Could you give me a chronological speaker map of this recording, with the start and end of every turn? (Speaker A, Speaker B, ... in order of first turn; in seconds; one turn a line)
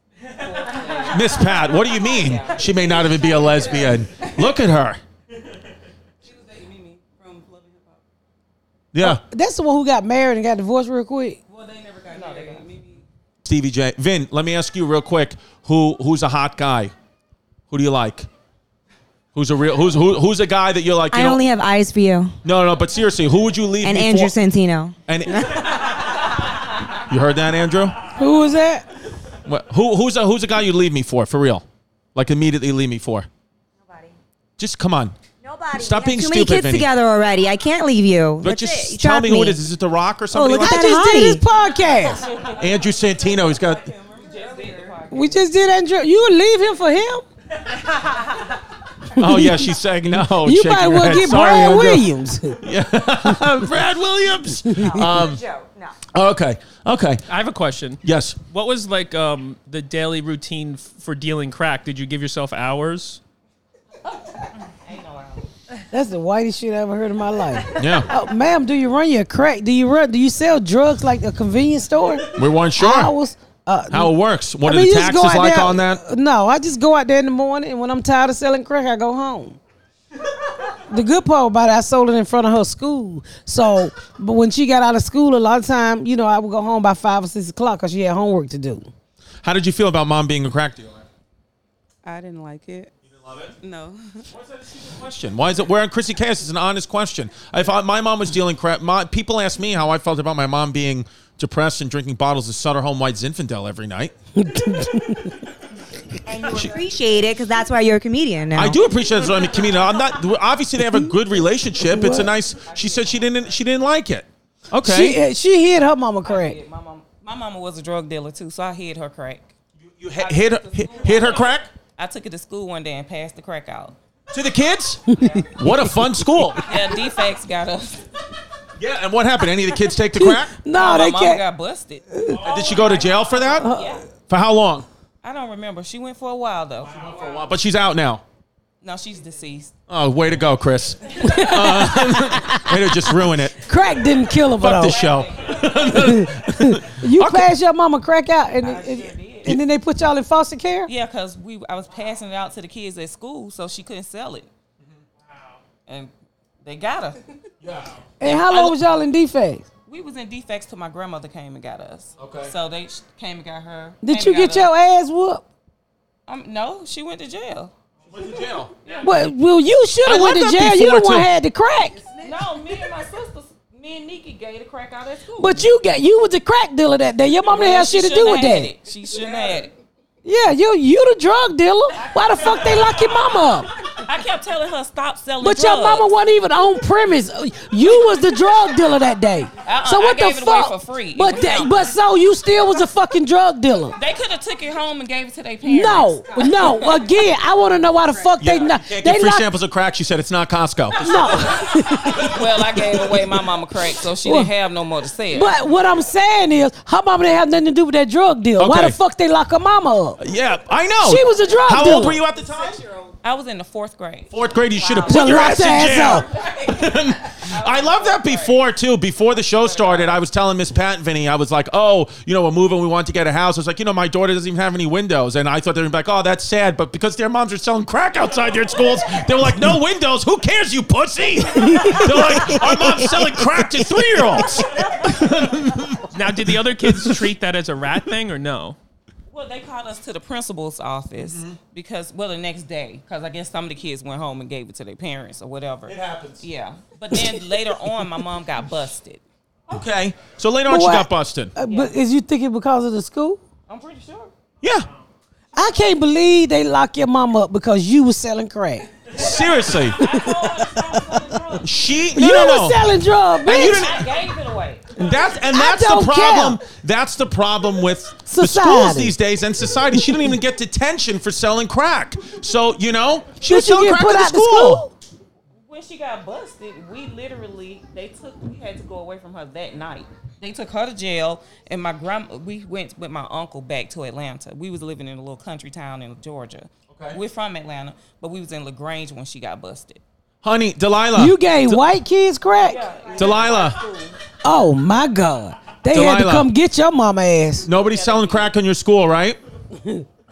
Speaker A: 0.3-3.9
Speaker B: 0.4-4.5
Speaker C: 1.1-5.0
Speaker B: 6.2-8.0
Speaker C: 8.9-9.2
Speaker D: 9.0-11.4
Speaker B: 11.5-13.0
Speaker A: 12.1-12.7
Speaker C: 13.4-16.9
Speaker C: 17.7-18.3
Speaker C: 19.3-21.4
Speaker E: 21.1-22.4
Speaker C: 22.4-24.3
Speaker E: 23.8-26.1
Speaker C: 25.1-25.9
Speaker C: 27.1-28.0
Speaker D: 28.2-28.9
Speaker C: 29.5-33.3
Speaker E: 33.8-34.1
Speaker C: 34.6-35.1
Speaker E: 35.4-39.6
Speaker C: 35.7-36.9
Speaker C: 38.4-41.0
Speaker E: 40.3-41.4
Speaker D: 40.6-42.3
Speaker B: 42.3-42.6
Speaker A: 42.3-42.6
Speaker C: 42.6-43.9
Speaker B: 43.1-45.1
Speaker A: 44.2-45.4
Speaker D: 45.1-47.2
Speaker C: 49.1-52.1
Speaker D: 49.1-49.7
Speaker D: 50.4-52.6
Speaker C: 52.6-55.4
Speaker D: 54.7-55.1
Speaker E: 55.0-56.0
Speaker C: 56.1-57.2
Speaker F: 57.3-63.2
Speaker C: 58.0-58.4
Speaker A: 64.8-65.5
Speaker D: 65.9-79.6
Speaker C: 67.8-68.1
Speaker C: 72.3-73.1
Speaker C: 73.9-76.0
Speaker D: 80.7-88.9
Speaker C: 89.4-91.1
Speaker B: 92.0-92.9
Speaker C: 93.1-93.5
Speaker B: 93.6-94.2
Speaker C: 94.3-104.1
Speaker D: 104.4-105.5
Speaker E: 106.3-108.8
Speaker C: 108.5-115.2
Speaker D: 111.8-112.3
Speaker A: 112.1-113.6
Speaker D: 114.8-116.6
Speaker A: 116.2-119.5
Speaker C: 119.9-121.7
Speaker A: 120.2-124.0
Speaker C: 124.3-126.7
Speaker D: 125.1-127.0
Speaker A: 125.1-125.6
Speaker A: 126.6-128.1
Speaker C: 128.8-130.6
Speaker D: 130.1-131.4
Speaker A: 130.7-134.0
Speaker D: 132.1-132.4
Speaker C: 132.4-133.7
Speaker D: 133.6-134.0
Speaker C: 134.3-134.9
Speaker A: 135.2-137.4
Speaker C: 136.9-138.2
Speaker A: 138.8-139.7
Speaker C: 139.9-143.6
Speaker D: 141.2-145.0
Speaker A: 141.2-141.6
Speaker C: 144.5-147.5
Speaker A: 144.7-146.1
Speaker D: 145.9-150.9
Speaker A: 148.6-149.6
Speaker A: 150.9-154.5
Speaker A: 155.9-156.1
Speaker A: 156.6-157.2
Speaker C: 157.6-158.0
Speaker D: 158.2-159.7
Speaker A: 158.2-158.8
Speaker A: 159.9-164.7
Speaker C: 162.2-162.5
Speaker D: 164.0-165.4
Speaker A: 166.3-167.7
Speaker C: 168.1-168.7
Speaker D: 169.0-172.0
Speaker C: 170.1-171.3
Speaker B: 172.0-172.5
Speaker A: 172.2-175.7
Speaker D: 175.4-178.7
Speaker A: 177.5-179.7
Speaker B: 179.2-179.6
Speaker D: 180.2-183.7
Speaker A: 184.0-186.1
Speaker D: 185.4-194.0
Speaker A: 189.7-191.9
Speaker A: 194.0-197.1
Speaker D: 195.7-199.5
Speaker C: 198.4-202.3
Speaker D: 201.0-202.5
Speaker A: 202.1-205.6
Speaker D: 204.2-204.5
Speaker D: 205.3-210.2
Speaker C: 208.6-209.0
Speaker C: 210.2-212.8
Speaker D: 211.0-212.2
Speaker B: 212.7-213.1
Speaker A: 213.2-215.6
Speaker C: 214.3-236.1
Speaker D: 215.1-216.3
Speaker A: 216.4-218.6
Speaker A: 219.3-220.2
Speaker D: 231.5-234.0
Speaker F: 236.1-238.8
Speaker C: 236.9-237.2
Speaker A: 239.3-249.2
Speaker C: 241.2-241.6
Speaker C: 245.9-246.4
Speaker C: 249.7-251.5
Speaker D: 250.7-253.4
Speaker A: 251.6-251.9
Speaker A: 253.7-254.3
Speaker C: 254.6-254.9
Speaker D: 255.5-261.1
Speaker C: 259.1-260.0
Speaker A: 259.2-262.1
Speaker C: 261.6-262.8
Speaker D: 262.1-263.9
Speaker C: 263.4-264.1
Speaker A: 263.5-265.1
Speaker C: 265.0-274.8
Speaker D: 265.5-266.6
Speaker D: 268.3-269.1
Speaker D: 273.5-274.9
Speaker A: 275.6-290.0
Speaker C: 286.9-287.2
Speaker C: 290.4-291.8
Speaker D: 291.2-292.9
Speaker A: 292.7-294.2
Speaker C: 293.2-293.8
Speaker D: 294.4-297.7
Speaker C: 295.9-296.5
Speaker C: 297.6-299.4
Speaker A: 297.7-298.5
Speaker D: 299.8-300.1